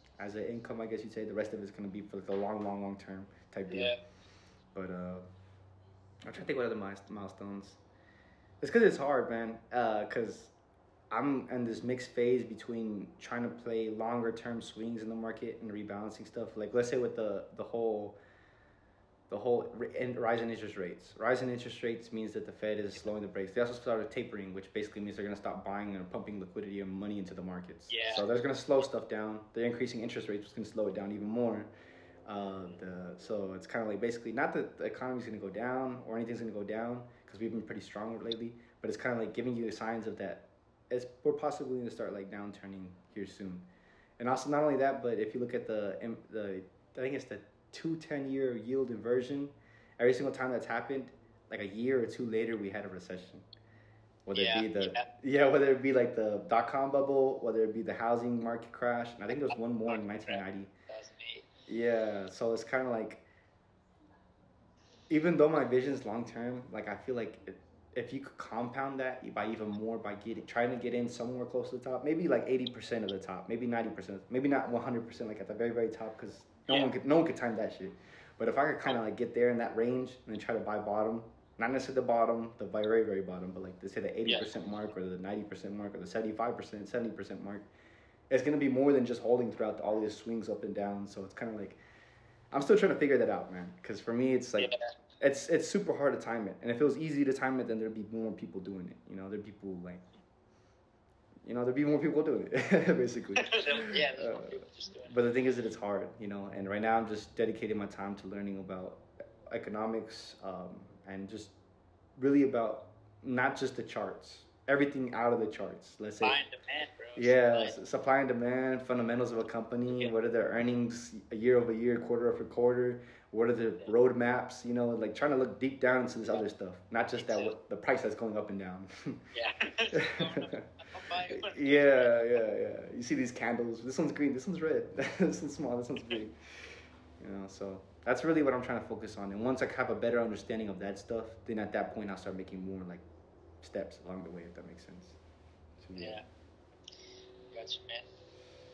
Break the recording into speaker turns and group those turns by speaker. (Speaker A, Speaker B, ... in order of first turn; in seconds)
Speaker A: 0.2-3.9, 4.7-5.3, 6.2-7.8, 8.6-10.5, 11.1-18.2, 19.3-31.7, 32.2-43.7, 44.2-53.5, 54.2-60.7, 61.6-63.2, 65.1-87.7, 88.3-91.8, 92.5-100.1, 101.4-111.5, 112.2-116.4, 117.2-129.3, 129.9-130.7, 131.3-136.4, 137.2-143.1, 143.6-145.2, 145.8-146.2
Speaker B: 3.7-4.0, 27.9-28.2, 54.3-55.1, 59.3-61.5, 76.7-76.9, 94.6-94.9, 103.4-105.2, 116.2-117.8, 127.2-127.6, 129.3-132.4, 146.0-146.2, 147.5-148.1